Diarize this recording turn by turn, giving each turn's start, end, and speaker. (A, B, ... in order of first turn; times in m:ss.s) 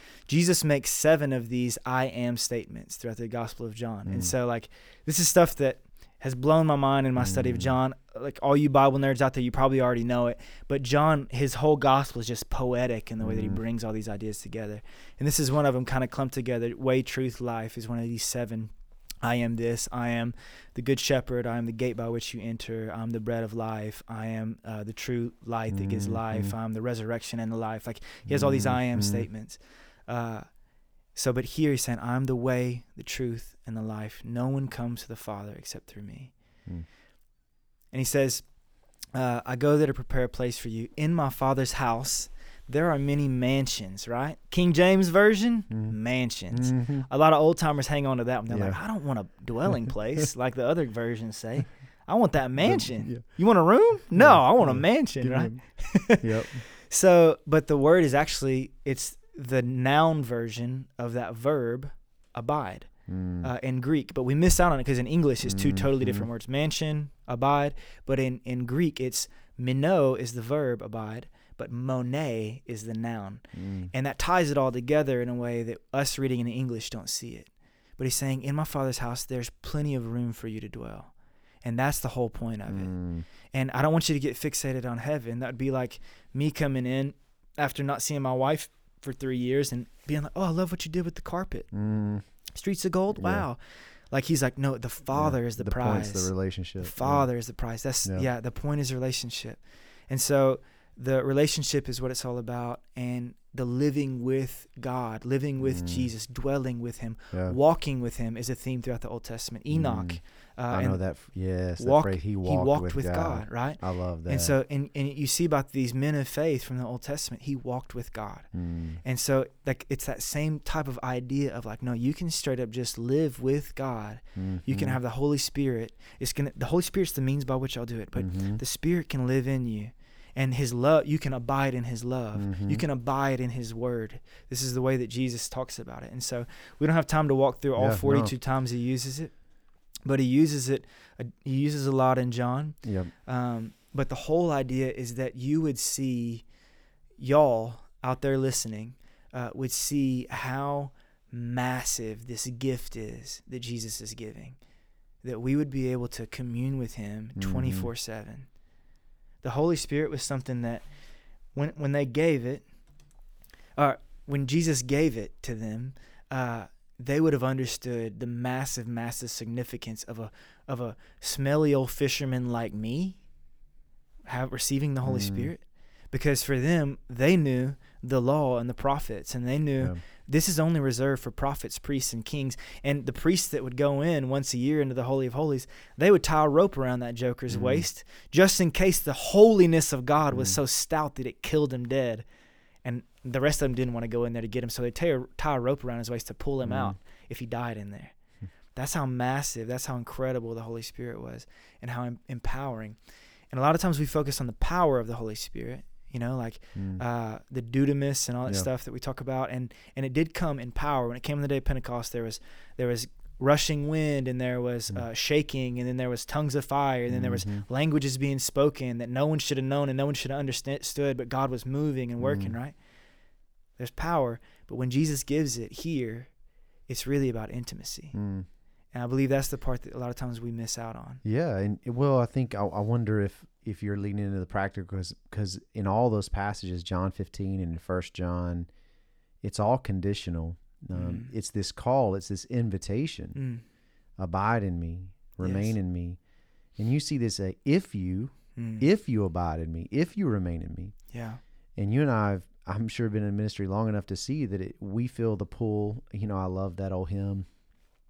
0:00.2-0:30.5 A
0:04.1-0:04.3 B
0:07.2-0:07.8 B
0:13.2-0:13.6 B
0:25.7-0:26.5 B
0:28.3-0:29.3 B
0:31.1-0:36.3 A
0:37.9-0:38.5 A
0:39.1-1:21.1 A
0:45.7-0:46.0 B
0:46.5-0:47.1 B
0:48.5-0:48.8 B
0:52.6-0:53.3 B
0:54.1-0:56.6 B
1:03.1-1:03.5 B
1:05.4-1:06.3 B
1:13.5-1:13.9 B
1:21.6-1:23.0 A
1:22.7-1:23.3 B
1:23.5-1:31.7 A
1:31.7-1:32.2 B
1:32.5-1:33.6 A
1:33.1-1:33.4 B
1:34.1-1:51.1 A
1:35.1-1:37.3 B
1:45.6-1:46.1 B
1:47.3-1:47.6 B
1:49.7-1:54.5 B
1:51.8-2:19.4 A
1:58.5-1:59.0 B
2:04.4-2:05.0 B
2:08.2-2:08.6 B
2:12.4-2:12.8 B
2:17.8-2:18.3 B
2:20.0-2:26.5 A
2:22.8-2:23.1 B
2:27.2-2:34.6 A
2:35.2-2:38.5 A
2:37.4-2:37.9 B
2:39.4-2:40.9 A
2:41.5-2:42.7 A
2:43.8-2:53.2 A
2:54.2-3:12.2 A
2:55.0-2:55.5 B
3:07.5-3:07.9 B
3:10.3-3:10.6 B
3:12.8-3:18.2 A
3:16.6-3:17.0 B
3:18.8-3:23.0 A
3:23.5-3:42.8 A
3:26.8-3:27.0 B
3:37.1-3:37.6 B
3:42.2-3:42.6 B
3:43.8-3:46.3 A
3:46.9-3:48.2 A
3:48.1-3:48.5 B
3:48.9-3:51.2 A
3:51.2-3:58.7 B
3:59.4-4:03.4 B
4:00.9-4:01.3 A
4:03.4-4:03.6 A
4:04.2-4:06.2 B
4:05.4-4:05.7 A
4:06.8-4:11.0 B
4:08.6-4:08.9 A
4:11.1-4:11.4 A
4:11.8-4:17.5 B